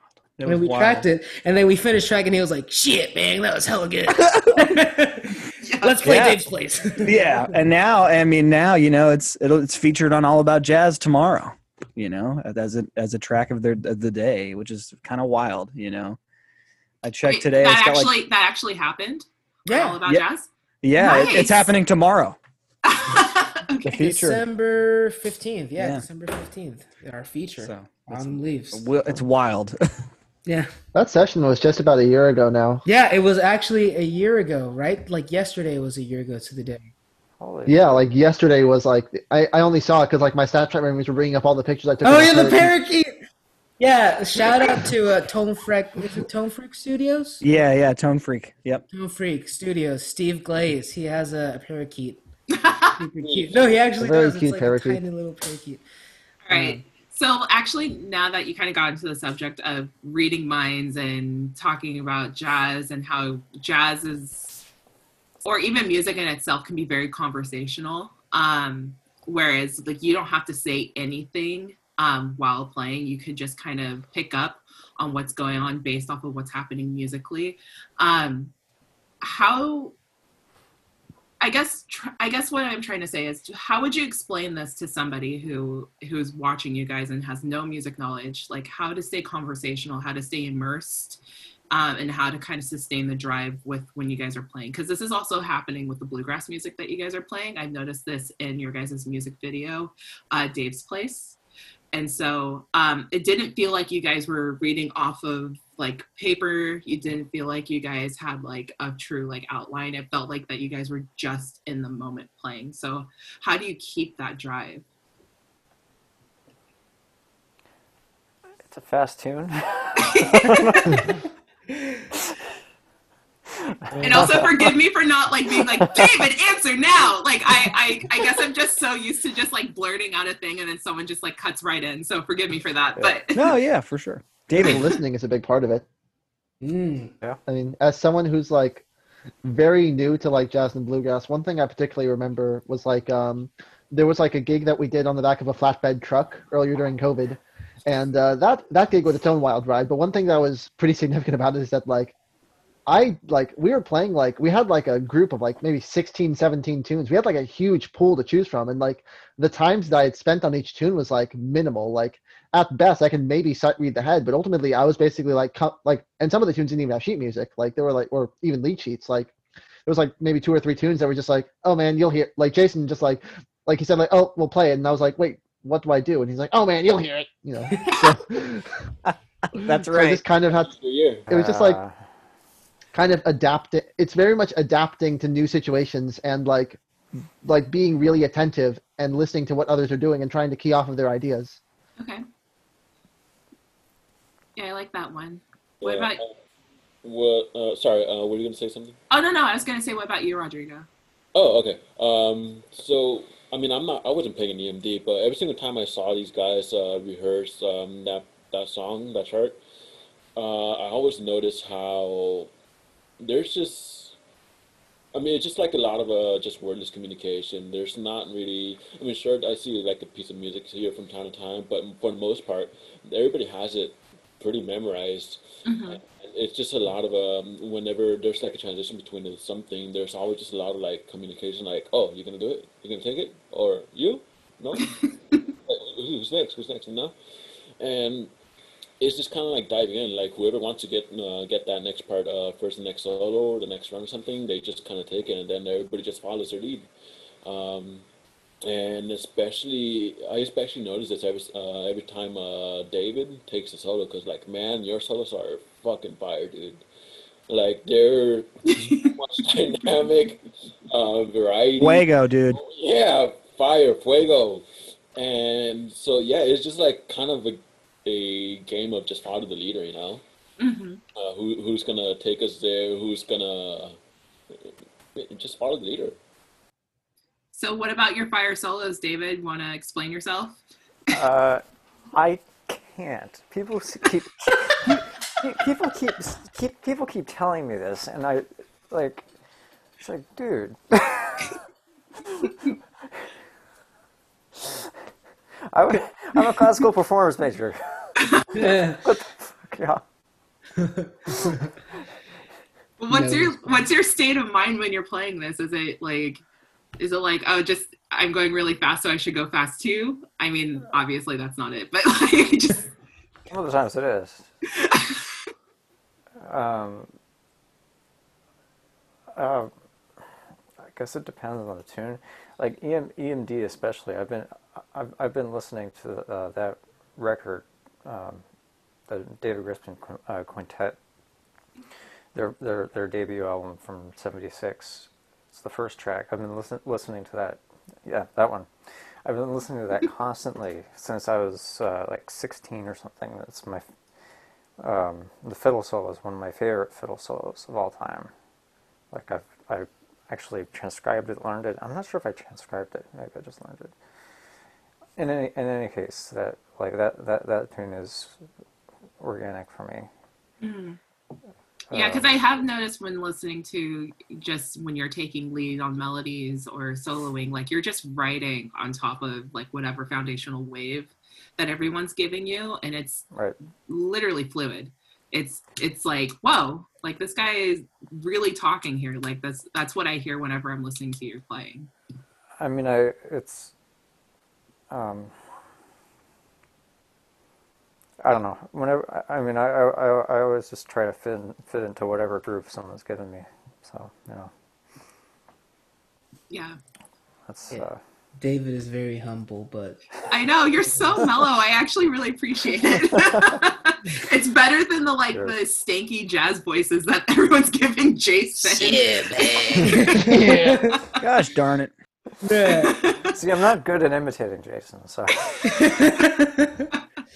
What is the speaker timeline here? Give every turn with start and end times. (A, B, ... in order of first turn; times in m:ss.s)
0:00.4-0:01.1 A
0:00.4-0:07.5 B
0:04.2-0:04.6 A
0:05.6-0:06.2 C
0:06.0-0:06.4 A
0:07.0-0:16.2 A
0:17.0-0:18.2 A
0:17.3-0:21.7 C
0:19.7-0:20.0 B
0:20.8-0:22.4 A
0:21.1-0:21.4 B
0:22.8-0:23.9 C
0:23.8-0:24.4 A
0:24.0-0:29.2 B
0:25.8-0:26.1 A
0:27.6-0:30.1 A
0:30.5-0:30.7 B
0:31.0-0:32.9 D
0:32.9-0:36.9 B
0:37.4-0:38.1 E
0:37.7-0:42.7 D
0:42.0-0:43.2 B
0:43.8-0:47.4 B
0:47.4-0:48.8 A
0:48.9-0:52.2 B
0:52.5-0:53.0 C
0:53.0-0:55.8 B
0:53.2-0:53.6 F
0:54.0-0:55.0 D
0:56.5-1:04.6 C
0:56.5-0:56.8 B
1:05.4-1:18.5 C
1:19.2-1:20.0 C
1:21.4-1:41.4 C
1:41.9-1:54.8 C
1:58.6-2:01.2 E
2:00.0-2:01.0 C
2:03.6-2:04.3 E
2:04.0-2:04.5 A
2:04.0-2:13.5 C
2:05.8-2:06.1 E
2:13.3-2:14.9 A
2:14.6-2:15.8 D
2:16.6-2:17.1 B
2:17.5-2:18.8 D
2:19.4-2:32.1 D
2:32.9-2:49.3 D
2:49.9-2:58.7 D
2:57.8-2:58.0 B
2:59.5-3:00.2 A
2:59.8-3:00.7 D
3:00.7-3:01.3 F
3:01.3-3:01.8 D
3:01.3-3:02.0 E
3:02.9-3:06.8 D
3:07.4-3:11.6 D
3:12.0-3:12.2 C
3:14.6-3:16.2 C
3:15.8-3:16.3 F
3:17.0-3:19.0 F
3:19.1-3:20.9 C
3:21.4-3:29.6 F
3:30.4-3:32.5 F
3:33.2-3:34.2 F
3:35.1-3:57.2 F
3:45.7-3:46.0 C
3:57.8-3:58.3 F
3:59.0-4:06.9 F
4:07.4-4:08.1 F
4:08.6-4:16.8 F
4:17.5-4:24.6 F
4:18.7-4:19.1 C
4:21.8-4:22.6 A
4:25.2-4:30.2 F
4:30.6-4:31.0 C
4:31.1-4:34.0 F
4:34.5-4:36.2 F
4:37.5-4:40.6 C
4:41.1-4:49.3 E
4:50.0-4:51.6 E
4:52.3-4:52.5 E
4:54.6-4:54.9 E
4:55.7-5:00.0 E
4:58.5-4:59.0 B
5:00.8-5:01.7 B
5:03.0-5:06.4 C
5:03.1-5:03.8 B
5:07.0-5:12.9 C
5:13.5-5:14.5 E
5:14.8-5:15.2 C
5:16.4-5:17.1 E
5:19.3-5:19.7 E
5:20.8-5:28.4 E
5:29.1-5:31.0 E
5:32.3-5:38.7 E
5:39.2-5:43.9 E
5:44.8-5:48.3 E
5:49.1-5:53.9 E
5:55.2-5:58.4 E
5:59.2-6:00.1 E
6:00.6-6:01.0 C
6:01.9-6:02.3 E
6:01.9-6:13.3 C
6:13.9-6:21.9 C
6:22.6-6:23.7 E
6:24.9-6:25.3 E
6:28.2-6:34.5 E
6:36.5-6:36.8 C
6:37.5-6:38.0 E
6:38.4-6:40.0 B
6:40.3-6:50.5 C
6:43.1-6:43.6 E
6:45.3-6:45.6 E
6:48.6-6:51.2 B
6:50.3-6:50.6 D
6:51.2-6:51.9 A
6:52.4-6:53.0 B
6:52.6-6:53.3 C
6:53.3-6:55.5 E
6:55.7-6:56.9 B